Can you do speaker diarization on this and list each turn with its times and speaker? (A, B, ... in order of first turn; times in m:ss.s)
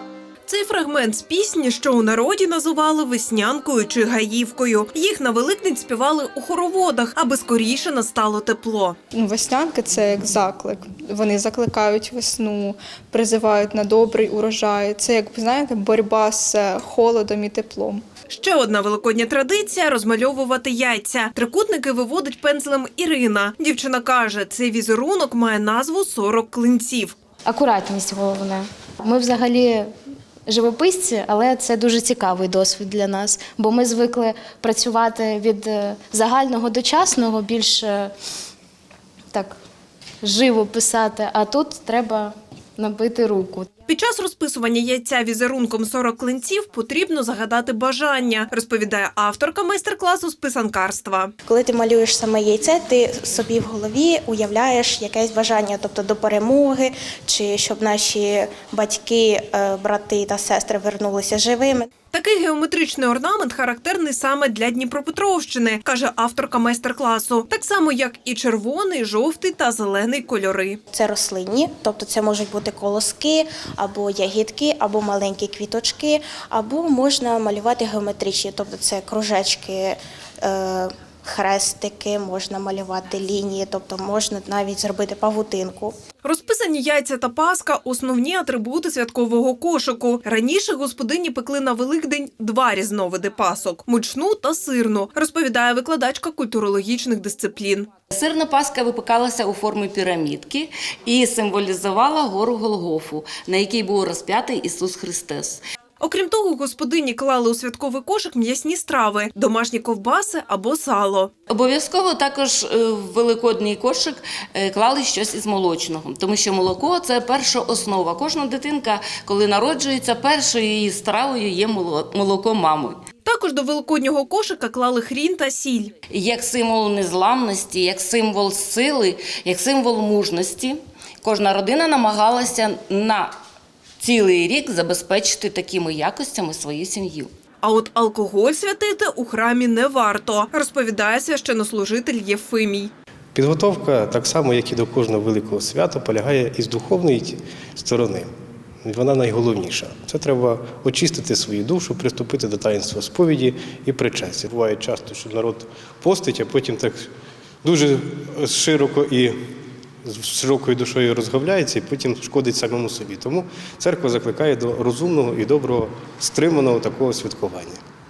0:00.5-0:09.0 A
0:09.1-0:18.0 B
0:18.3-0:27.2 A
0:27.4-0:29.9 C
0:30.5-0:38.1 C
0:40.2-0:43.7 C
0:43.9-0:51.3 A
0:51.4-1:01.9 D
1:02.1-1:10.8 A
1:10.9-1:25.9 D
1:26.2-1:37.9 A
1:38.1-1:45.6 E
1:46.0-1:51.3 A
1:51.5-2:03.0 E
2:03.2-2:05.9 A
2:06.1-2:13.3 E
2:14.0-2:17.3 E
2:17.6-2:22.9 A
2:23.3-2:28.3 F
2:28.8-2:37.1 F
2:37.6-2:39.4 F
2:40.0-2:47.8 F